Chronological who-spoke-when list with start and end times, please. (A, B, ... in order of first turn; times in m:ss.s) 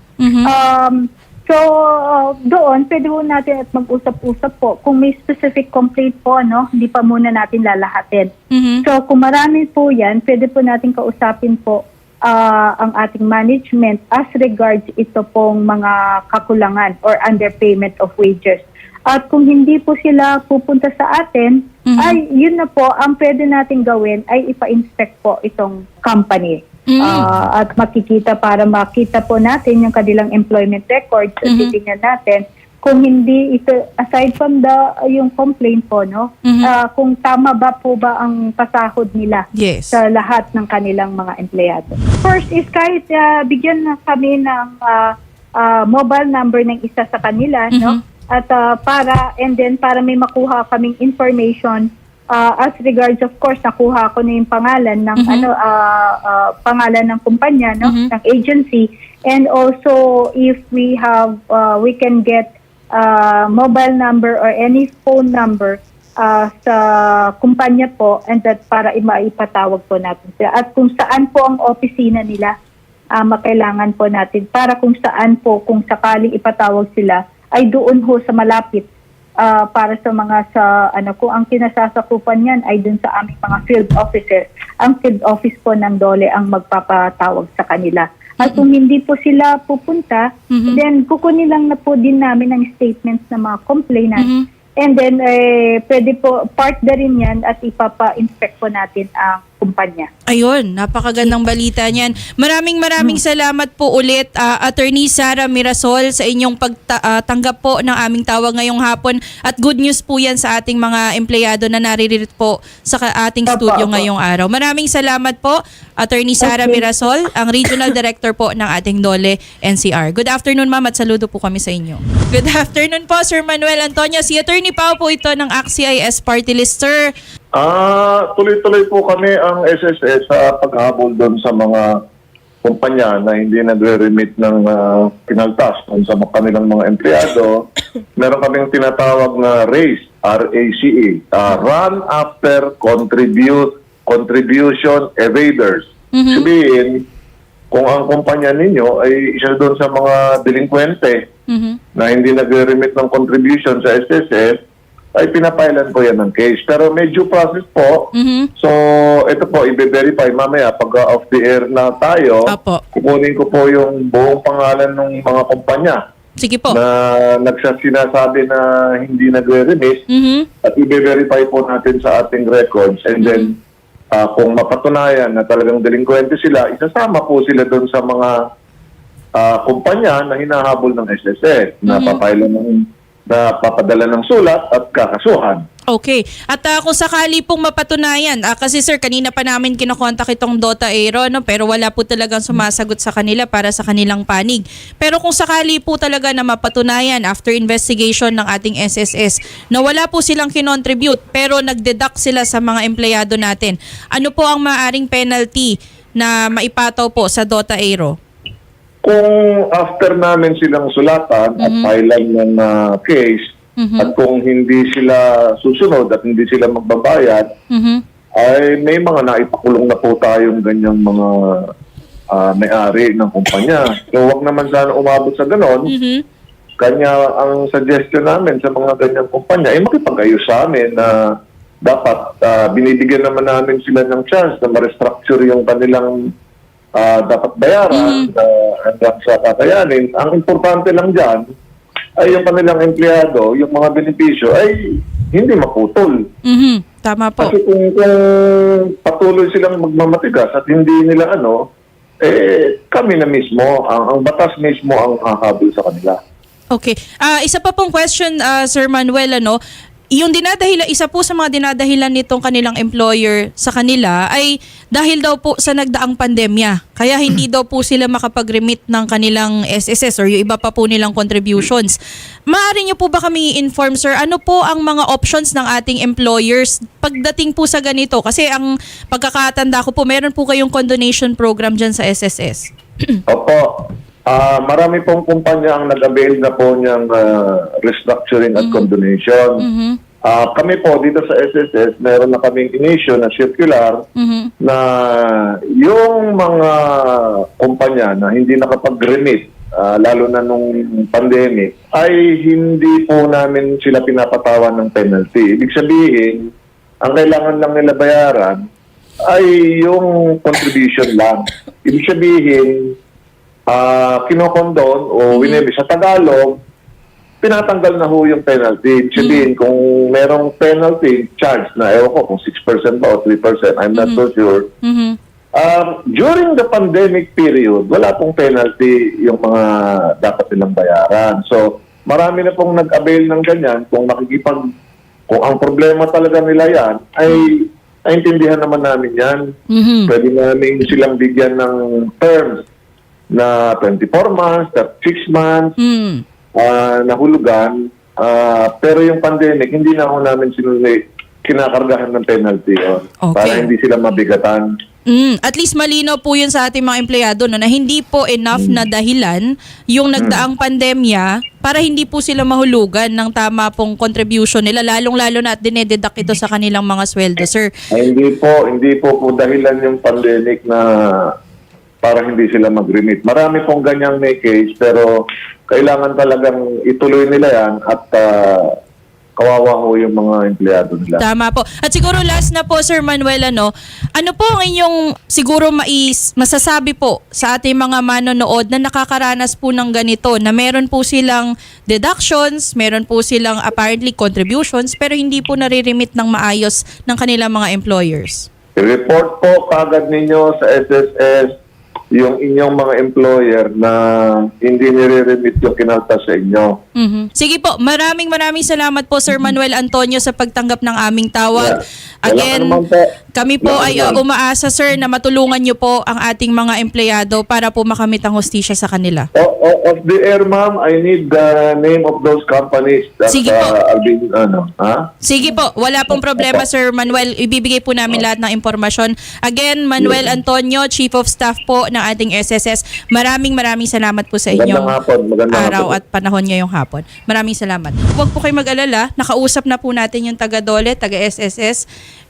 0:00.2-0:00.5 A
0:00.4-0:08.3 B
0:08.5-0:08.8 A
0:08.8-1:12.5 B
0:21.9-0:22.2 A
0:26.9-0:27.3 A
0:31.4-0:31.7 A
0:36.4-0:36.7 A
0:39.5-0:40.0 A
0:47.7-0:48.0 A
0:55.2-0:55.5 A
0:57.8-0:58.1 A
1:13.2-1:18.9 B
1:19.4-1:40.1 B
1:30.5-1:30.8 A
1:34.2-1:34.4 A
1:40.3-2:07.1 A
1:53.5-1:54.0 B
1:56.4-1:56.8 B
2:07.6-2:11.9 C
2:12.6-2:27.0 C
2:26.1-2:26.5 A
2:27.7-2:31.2 C
2:31.5-2:31.8 A
2:32.0-2:34.6 C
2:35.2-2:46.0 C
2:38.1-2:38.5 A
2:42.5-2:42.8 A
2:46.4-2:46.8 A
2:46.7-2:50.0 C
2:50.1-2:50.5 A
2:50.6-2:53.6 C
2:53.2-2:53.5 A
2:54.1-2:58.4 C
2:59.4-3:05.6 C
3:01.9-3:02.2 A
3:05.9-3:28.2 A
3:29.0-3:37.5 C
3:31.6-3:31.9 A
3:33.8-3:34.1 A
3:37.7-3:38.0 A
3:38.4-3:41.7 C
3:42.3-3:45.9 C
3:45.9-3:46.2 A
3:46.8-3:56.3 C
3:57.0-4:01.4 C
3:57.9-3:58.3 A
4:02.2-4:04.8 C
4:05.3-4:06.2 C
4:06.4-4:07.5 A
4:07.4-4:11.7 C
4:12.2-4:16.2 C
4:16.7-4:19.6 A
4:20.1-4:32.0 A
4:32.5-4:43.2 A
4:43.3-4:49.6 C
4:48.6-4:48.9 A
4:49.6-4:50.0 A
4:50.2-4:54.0 C
4:54.2-4:54.5 A
4:54.6-5:06.5 C
5:07.0-5:08.6 C
5:09.3-5:12.9 C
5:13.7-5:16.6 C
5:15.3-5:15.6 A
5:17.4-5:24.7 C
5:19.2-5:19.5 A
5:23.9-5:24.2 A
5:24.8-5:25.2 A
5:25.6-5:34.6 C
5:35.3-5:39.4 C
5:39.7-5:40.1 A
5:40.1-5:42.6 C
5:43.3-5:45.7 C
5:45.8-5:46.2 A
5:46.6-5:54.7 C
5:53.2-5:53.7 A
5:55.1-6:07.7 A
6:00.2-6:00.4 C
6:07.9-6:11.3 C
6:12.0-6:18.8 C
6:19.4-6:21.2 C
6:21.2-6:38.5 A
6:38.8-6:41.5 C
6:42.1-6:46.8 C
6:47.0-6:52.8 A
6:51.5-6:53.1 C
6:53.3-6:59.3 A
6:53.6-6:54.2 C
6:59.3-7:05.1 C
7:03.3-7:03.7 A
7:05.2-7:14.9 A
7:06.1-7:06.6 C
7:10.0-7:10.3 C
7:14.5-7:16.0 C
7:15.5-7:21.8 A